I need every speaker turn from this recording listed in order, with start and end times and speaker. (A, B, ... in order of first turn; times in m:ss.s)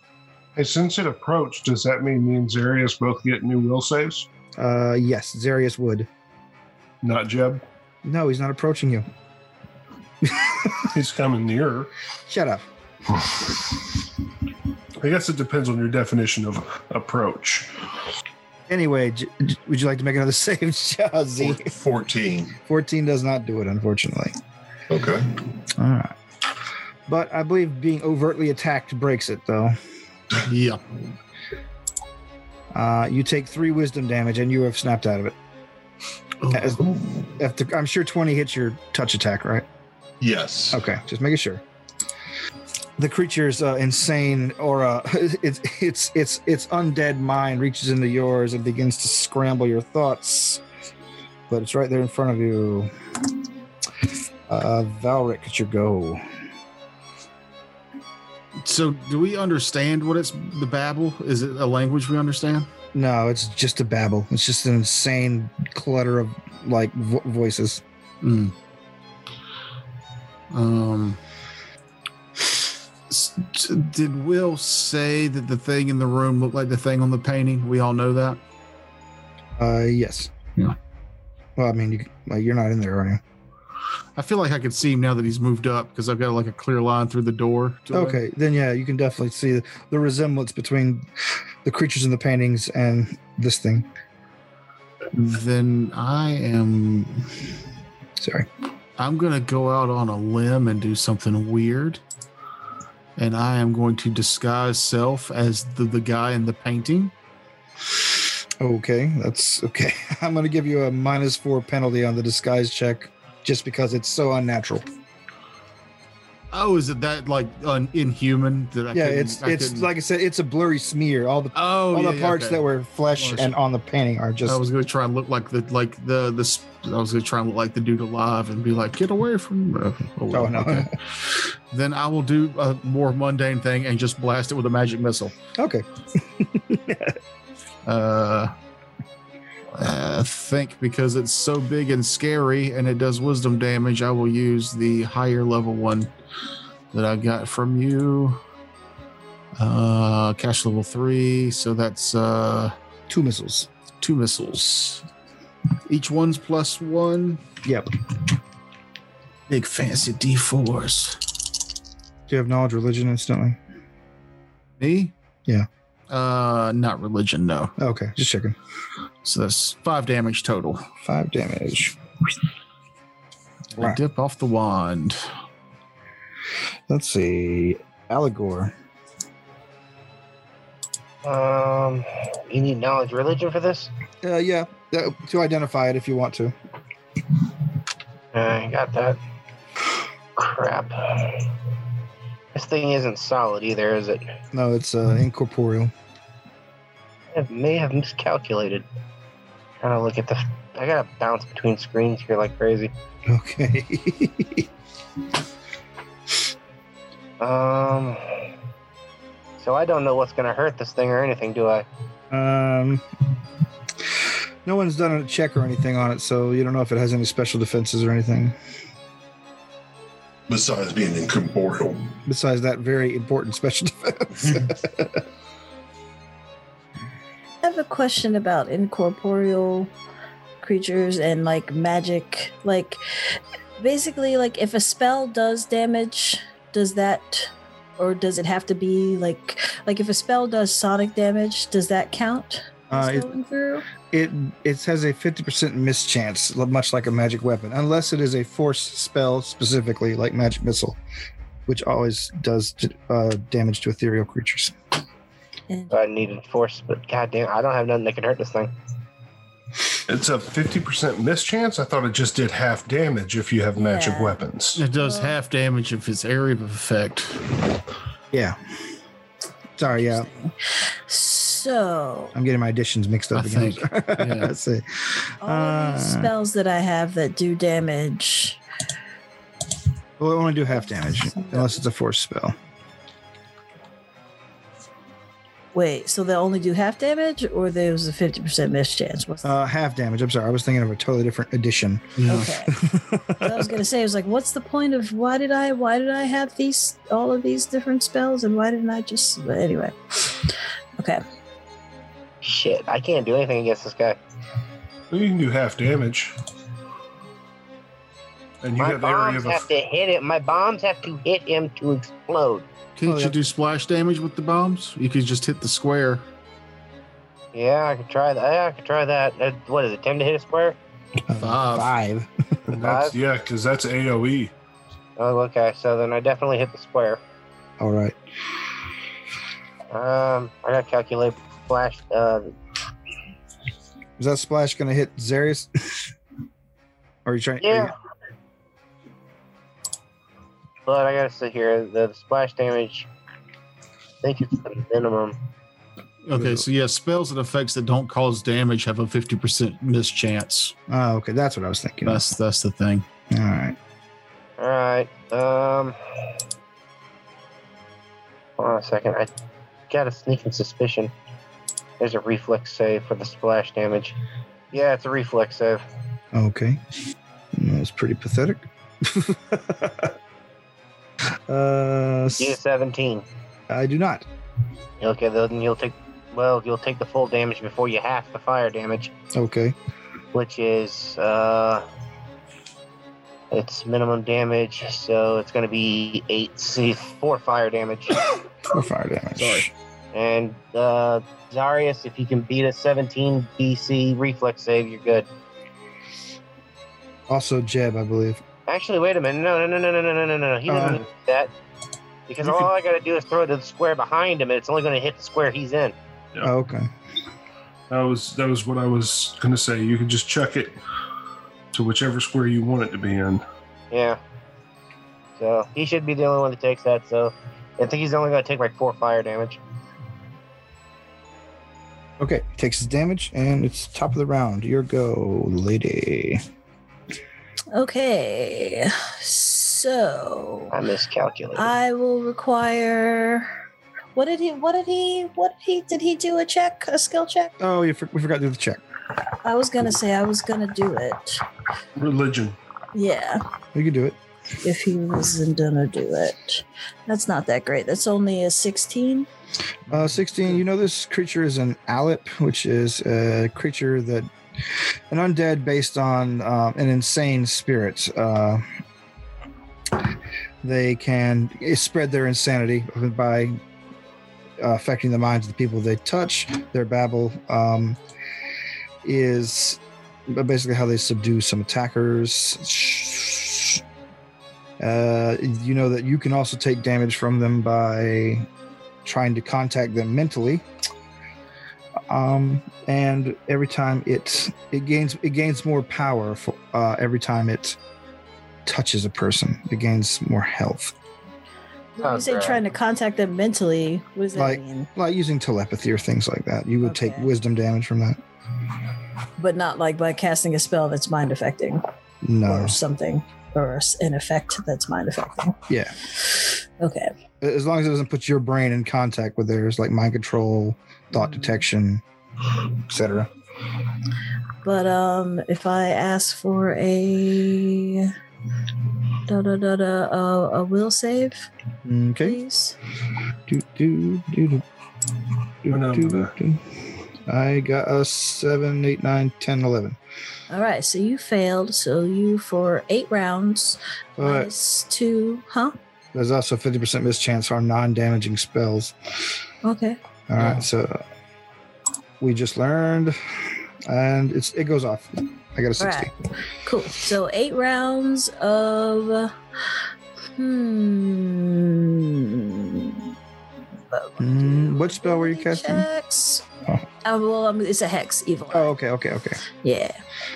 0:00.6-0:04.3 A
0:04.6-0:06.1 B
0:07.0-0:07.6 A
0:08.0-0:09.1 B
0:10.2-0:10.8 B
0:10.8-0:11.9 A
0:12.3-0:12.6 B
0:13.1-0:13.5 A
0:15.0-0:17.7 A
0:18.7-0:21.7 B
0:21.4-0:22.6 C
0:22.6-0:24.3 B
0:24.9-0:25.4 C
0:25.8-0:26.1 B
0:27.1-0:29.8 B
0:30.4-0:30.8 D
0:32.7-0:35.4 B
0:36.4-0:36.8 D
0:36.5-0:39.6 B
0:36.8-0:37.1 C
0:40.2-0:40.8 C
0:40.7-0:41.6 B
0:43.0-0:50.6 B
0:51.5-0:52.9 B
0:54.5-0:56.2 B
0:58.6-1:02.7 D
1:02.9-1:07.8 B
1:08.2-1:08.5 D
1:10.5-1:11.2 D
1:13.1-1:18.4 D
1:19.6-1:20.3 B
1:21.6-1:23.2 B
1:24.2-1:28.2 D
1:27.9-1:31.0 B
1:31.6-1:33.9 B
1:35.1-1:37.3 D
1:38.2-1:38.5 B
1:39.0-1:42.0 D
1:43.2-1:47.1 D
1:48.6-1:54.8 B
1:56.5-1:59.9 D
1:58.9-2:04.6 B
2:01.5-2:02.6 D
2:03.2-2:03.5 D
2:04.4-2:15.3 D
2:10.3-2:10.9 B
2:15.6-2:17.2 B
2:17.8-2:18.5 D
2:19.7-2:26.1 D
2:26.9-2:28.4 D
2:29.6-2:32.7 D
2:33.1-2:33.7 B
2:34.0-2:35.0 D
2:35.9-2:37.4 D
2:37.6-2:37.9 B
2:39.5-2:41.2 D
2:42.3-2:43.6 B
2:44.8-2:45.1 D
2:46.1-2:47.7 D
2:47.8-2:48.6 B
2:49.2-2:50.8 D
2:51.0-2:52.0 B
2:53.7-2:55.3 D
2:56.9-2:58.7 B
3:01.2-3:03.9 E
3:04.2-3:06.5 B
3:08.3-3:09.2 E
3:10.4-3:11.5 E
3:12.5-3:14.2 E
3:14.5-3:15.9 B
3:17.3-3:18.8 E
3:19.8-3:22.9 E
3:23.3-3:24.7 B
3:27.4-3:28.4 E
3:29.6-3:31.8 E
3:32.3-3:33.0 B
3:34.6-3:38.6 B
3:40.5-3:42.2 C
3:42.2-3:45.2 B
3:47.6-3:49.9 F
3:50.6-4:03.9 F
4:02.9-4:03.3 B
4:04.0-4:11.0 B
4:11.6-4:14.7 B
4:15.9-4:18.7 E
4:20.1-4:24.8 A
4:23.8-4:24.4 F
4:24.7-4:27.4 D
4:24.9-4:25.4 F
4:28.3-4:28.6 B
4:29.8-4:30.3 B
4:29.9-4:30.5 F
4:31.1-4:32.3 F
4:32.3-4:36.3 B
4:33.3-4:34.5 D
4:35.4-4:38.6 F
4:40.2-4:42.5 B
4:41.2-4:41.7 F
4:45.7-4:49.5 F
4:49.4-4:53.7 B
4:52.2-4:52.5 D
4:52.3-4:52.7 F
4:53.4-5:01.2 F
5:02.4-5:04.2 E
5:05.1-5:06.3 A
5:08.6-5:09.7 A
5:08.8-5:12.6 E
5:13.0-5:16.2 D
5:13.0-5:13.4 B
5:17.5-5:20.8 E
5:21.3-5:22.6 B
5:21.4-5:21.9 D
5:22.7-5:24.5 A
5:22.8-5:23.2 E
5:25.2-5:27.2 E
5:27.8-5:28.2 B
5:29.9-5:32.5 E
5:34.2-5:36.1 B
5:37.2-5:37.9 B
5:37.6-5:37.9 E
5:40.8-5:43.1 E
5:44.2-5:45.4 E
5:46.2-5:50.7 D
5:46.3-5:46.6 B
5:50.9-5:52.3 B
5:52.0-5:53.0 D
5:53.3-5:53.8 B
5:54.6-5:56.0 E
5:58.6-5:59.3 E
5:59.9-6:01.1 E
6:02.0-6:04.2 E
6:04.7-6:05.8 E
6:06.3-6:06.8 B
6:07.5-6:10.1 B
6:11.5-6:12.6 B
6:12.4-6:13.2 E
6:13.7-6:14.2 B
6:15.0-6:19.1 E
6:19.3-6:19.7 B
6:20.3-6:21.8 E
6:23.5-6:28.2 E
6:28.7-6:29.7 B
6:29.4-6:29.7 D
6:30.1-6:35.3 E
6:37.3-6:38.4 B
6:38.7-6:41.5 E
6:40.7-6:41.0 B
6:42.3-6:45.9 E
6:42.4-6:42.7 A
6:46.4-6:46.9 B
6:47.9-6:50.8 A
6:51.7-6:53.4 A
6:53.9-6:54.2 E
6:55.4-6:59.6 E
7:02.2-7:06.4 B
7:07.7-7:10.8 F
7:10.7-7:11.7 E
7:11.5-7:13.5 F
7:14.1-7:17.5 F
7:17.6-7:18.8 B
7:19.4-7:21.4 F
7:22.0-7:22.6 A
7:22.9-7:23.4 F
7:23.7-7:24.2 B
7:24.6-7:29.3 F
7:29.9-7:38.6 B
7:40.6-7:43.6 B
7:44.6-7:48.0 B
7:49.0-7:53.8 B
7:54.8-7:58.5 B
7:59.0-8:00.6 B
8:02.1-8:07.8 B
8:08.6-8:10.9 B
8:12.0-8:14.9 F
8:12.0-8:12.6 E
8:14.3-8:18.2 B
8:16.8-8:17.3 F
8:19.4-8:21.8 F
8:22.2-8:22.8 B
8:22.4-8:25.6 F
8:25.7-8:26.0 B
8:26.8-8:27.1 F
8:27.4-8:32.0 B
8:31.1-8:31.6 F
8:32.8-8:33.3 B
8:34.6-8:38.1 F
8:39.2-8:41.5 F
8:41.8-8:42.4 B
8:42.2-8:42.8 F
8:43.5-8:44.6 B
8:45.6-8:46.3 A
8:45.6-8:50.0 B
8:50.5-8:55.8 F
8:54.2-8:54.5 B
8:56.1-8:58.9 B
8:59.6-9:00.0 F
9:00.3-9:01.0 B
9:02.2-9:06.1 B
9:05.8-9:06.1 F
9:06.6-9:09.4 F
9:10.4-9:13.1 F
9:13.9-9:16.4 F
9:14.2-9:15.9 B
9:17.0-9:18.7 F
9:18.5-9:19.4 B
9:19.6-9:20.0 F